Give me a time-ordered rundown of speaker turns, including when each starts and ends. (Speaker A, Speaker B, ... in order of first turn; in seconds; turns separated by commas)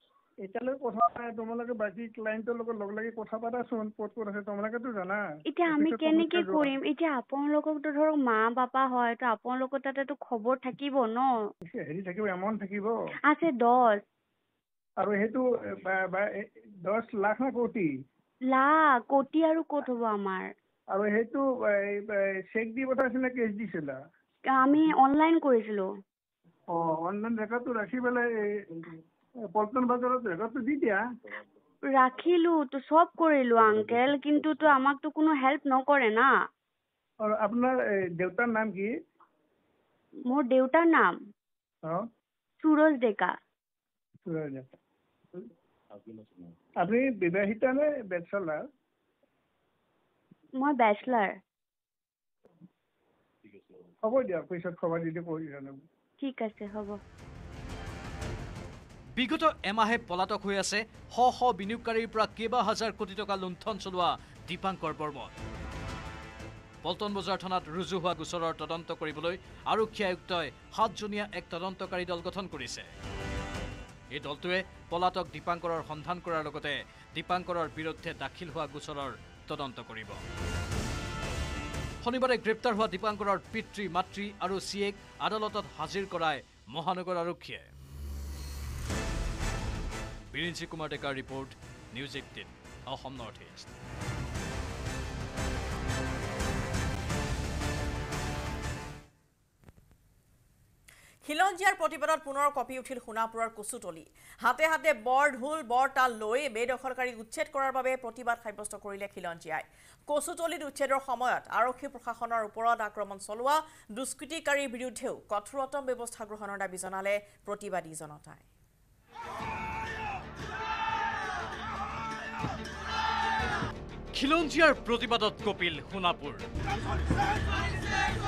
Speaker A: 0.5-6.7, Speaker B: 5.5-11.5, Speaker A: 11.7-12.9, Speaker B: 13.3-14.0, Speaker A: 15.0-17.9, Speaker B: 18.5-20.5, Speaker A: 20.9-24.0, Speaker B: 24.5-25.9, Speaker A: 26.7-28.9, Speaker A: 29.5-31.0, Speaker B: 31.9-36.3, Speaker A: 37.2-38.9, Speaker B: 40.3-41.1, Speaker B: 42.6-43.4, Speaker A: 44.3-44.8, Speaker A: 46.8-48.6, Speaker B: 50.6-51.4, Speaker A: 54.0-55.8, Speaker B: 56.2-57.0, Speaker C: 59.2-65.3, Speaker C: 66.8-72.9, Speaker C: 74.1-80.2, Speaker C: 82.0-87.7, Speaker C: 90.3-93.7, Speaker D: 101.2-118.4, Speaker C: 124.1-126.5